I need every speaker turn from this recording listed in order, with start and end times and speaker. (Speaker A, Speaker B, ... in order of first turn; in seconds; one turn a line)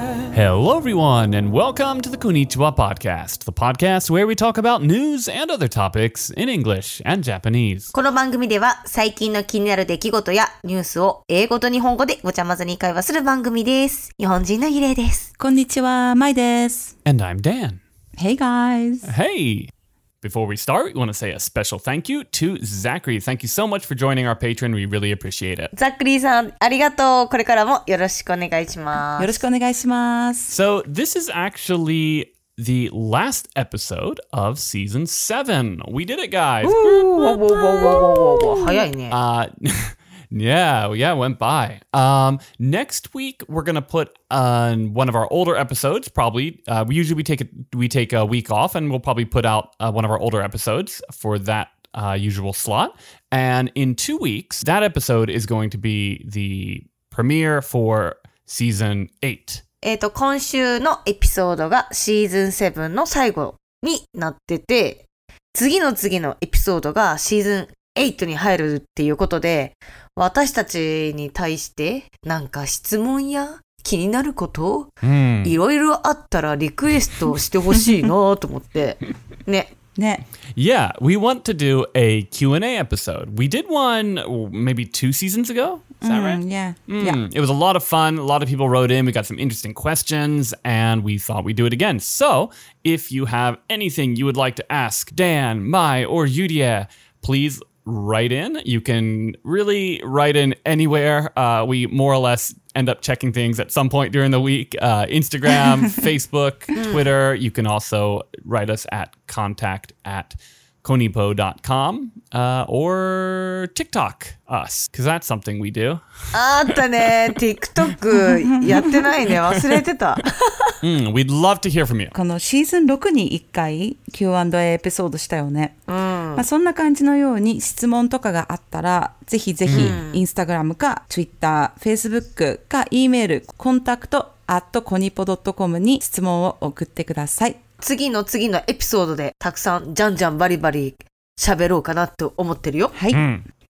Speaker A: 0.3-7.9
Speaker B: 7.9-15.3
Speaker C: 15.4-16.9
Speaker A: 17.0-17.8
Speaker C: 18.2-19.1
Speaker A: 19.0-19.7
Speaker A: 20.2-25.7
Speaker B: 25.7-29.4
Speaker C: 29.2-30.5
Speaker A: 30.5-36.8
Speaker C: 36.6-38.9
Speaker B: 36.8-39.2
Speaker A: 39.1-59.6
Speaker B: 59.8-79.7
Speaker A: 75.0-75.6
Speaker C: 80.0-80.2
Speaker A: 80.5-116.0
Speaker C: 86.0-87.2
Speaker B: 106.8-107.1
Speaker B: 116.3-120.7
Speaker C: 118.2-119.0
Speaker A: 119.4-119.7
Speaker A: 120.8-122.1
Speaker C: 122.1-125.8
Speaker B: 125.9-126.5
Speaker C: 126.3-137.6
Speaker A: 129.7-130.0
Speaker B: 129.7-130.2
Speaker B: 137.8-142.9
Speaker C: 142.9-143.2
Speaker A: 143.1-143.4